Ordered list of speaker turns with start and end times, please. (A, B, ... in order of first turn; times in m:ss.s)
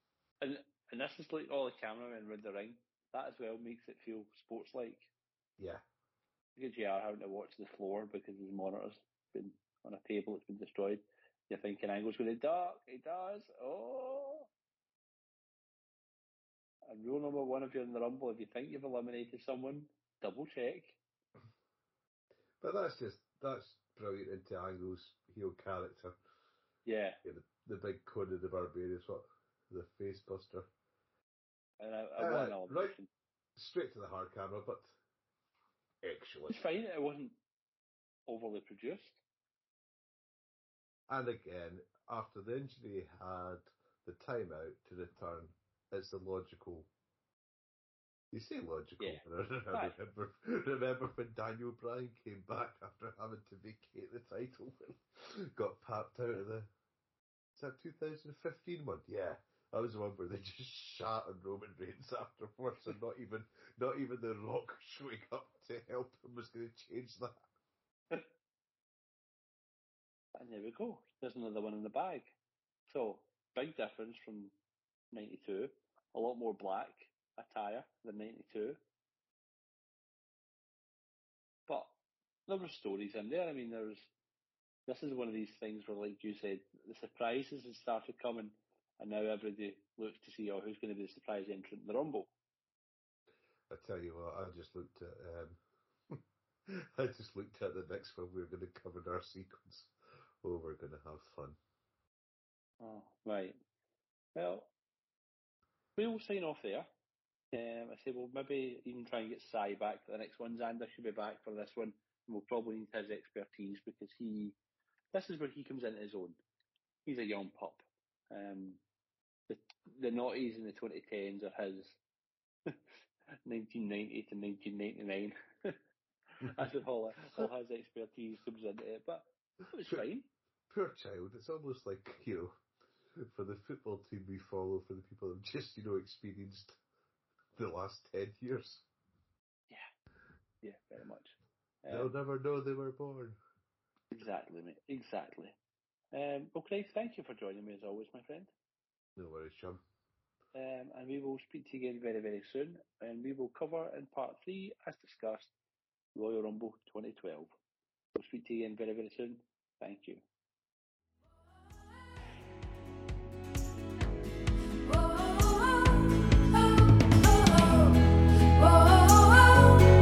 0:00.4-0:05.1 A
0:05.6-0:05.8 B
0:06.6-0:14.5 A
0:16.9-0:21.0 A
0:22.6-0:26.1 B
0:26.8-0:27.2 A
0:27.2-0:30.7 B
0:31.8-0:33.1 A
0:32.2-0:33.0 B
0:33.6-0:34.9 B
0:36.0-0:36.6 B
0:36.5-0:37.4 A
0:38.3-0:39.2 A
0:41.1-0:46.9 B
0:48.3-0:56.7 B
0:49.0-0:49.9 A
0:57.6-1:07.4 B
1:10.4-1:12.3 A
1:12.9-1:14.5 A
1:15.1-1:18.8 A
1:21.7-1:21.9 A
1:22.5-1:24.1 A
1:24.9-1:32.3 A
1:33.7-1:35.6 B
1:36.1-1:41.6 B
1:42.8-1:43.6 A
1:44.3-1:44.7 A
1:46.0-1:46.9 A
1:47.5-1:54.6 A
1:55.1-1:56.4 A
1:57.0-1:58.8 A
1:59.5-2:02.0 A
2:03.4-2:05.8 A
2:06.4-2:06.7 B
2:06.4-2:10.3 A
2:07.2-2:07.5 B
2:10.7-2:12.6 B
2:13.2-2:16.8 B
2:17.5-2:18.8 B
2:20.6-2:22.1 A
2:21.9-2:23.4 B
2:24.1-2:25.5 A
2:26.1-2:28.5 A
2:29.2-2:29.8 B
2:30.5-2:35.5 A
2:36.1-2:37.5 A
2:38.1-2:40.2 A